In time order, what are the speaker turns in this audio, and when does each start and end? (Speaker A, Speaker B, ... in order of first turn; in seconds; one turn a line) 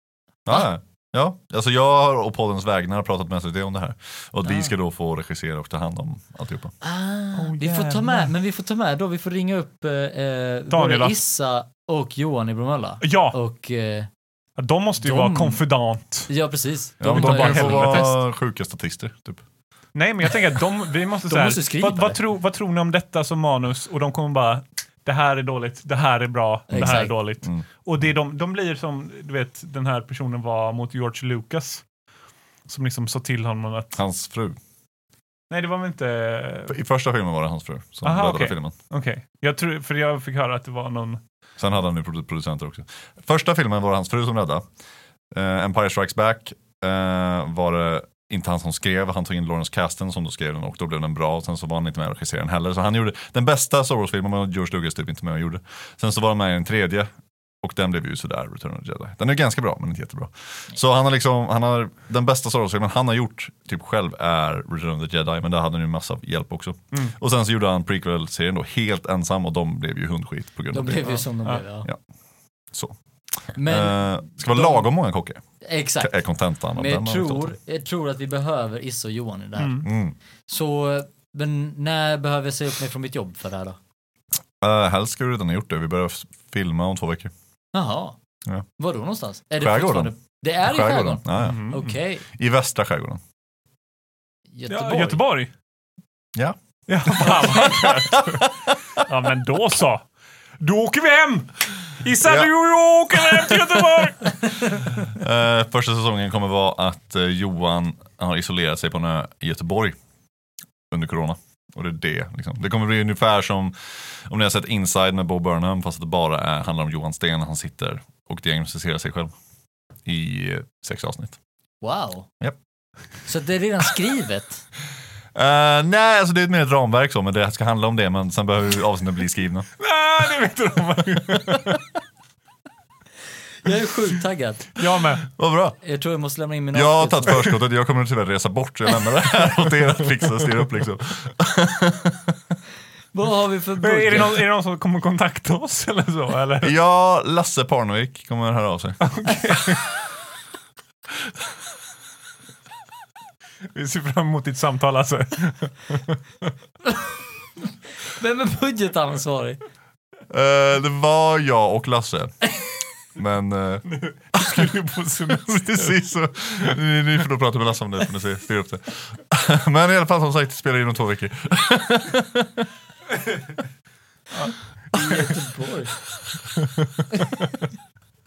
Speaker A: 0.5-6.7
Speaker B: 6.8-14.1
Speaker C: 7.3-8.3
Speaker C: 10.7-11.2
Speaker C: 13.0-13.4
Speaker C: 14.6-16.3
Speaker B: 15.0-15.6
Speaker B: 16.3-18.1
Speaker A: 17.0-19.4
Speaker C: 17.0-18.1
Speaker C: 19.9-31.8
Speaker B: 21.3-22.2
Speaker B: 26.7-27.1
Speaker A: 26.8-27.6
Speaker C: 32.7-34.0
Speaker A: 33.9-34.6
Speaker C: 35.5-36.7
Speaker A: 36.7-38.7
Speaker C: 38.0-41.2
Speaker A: 41.6-44.6
Speaker A: 45.3-57.1
Speaker A: 57.6-71.2
Speaker B: 70.7-71.9
Speaker A: 72.7-75.4
Speaker B: 73.5-74.9
Speaker B: 75.6-76.1
Speaker A: 76.0-77.5
Speaker B: 76.7-79.9
Speaker C: 79.6-79.9
Speaker A: 79.8-80.2
Speaker B: 80.5-83.8
Speaker A: 84.6-87.3
Speaker B: 87.7-88.2
Speaker B: 88.8-92.2
Speaker A: 89.6-91.7
Speaker C: 91.4-91.9
Speaker A: 92.3-93.2
Speaker B: 94.5-95.2
Speaker C: 94.7-95.5
Speaker A: 96.3-99.0
Speaker C: 96.9-100.0
Speaker C: 100.6-104.7
Speaker A: 102.2-102.5
Speaker A: 103.3-103.6
Speaker A: 105.0-110.0
Speaker A: 110.9-119.3
Speaker A: 120.0-121.4
Speaker B: 121.8-122.3
Speaker B: 123.3-124.6
Speaker A: 125.3-129.7
Speaker C: 129.8-131.8
Speaker B: 133.6-134.8
Speaker C: 134.8-135.2
Speaker A: 135.2-135.8
Speaker B: 135.8-137.5
Speaker A: 136.7-142.5
Speaker B: 143.1-144.4
Speaker C: 143.8-146.7
Speaker A: 146.6-149.3
Speaker C: 149.0-149.9
Speaker C: 153.7-156.5
Speaker B: 158.0-159.6
Speaker A: 160.3-162.5
Speaker A: 163.1-172.7
Speaker C: 163.9-166.0
Speaker C: 174.4-175.3
Speaker B: 174.9-176.0
Speaker C: 176.5-177.6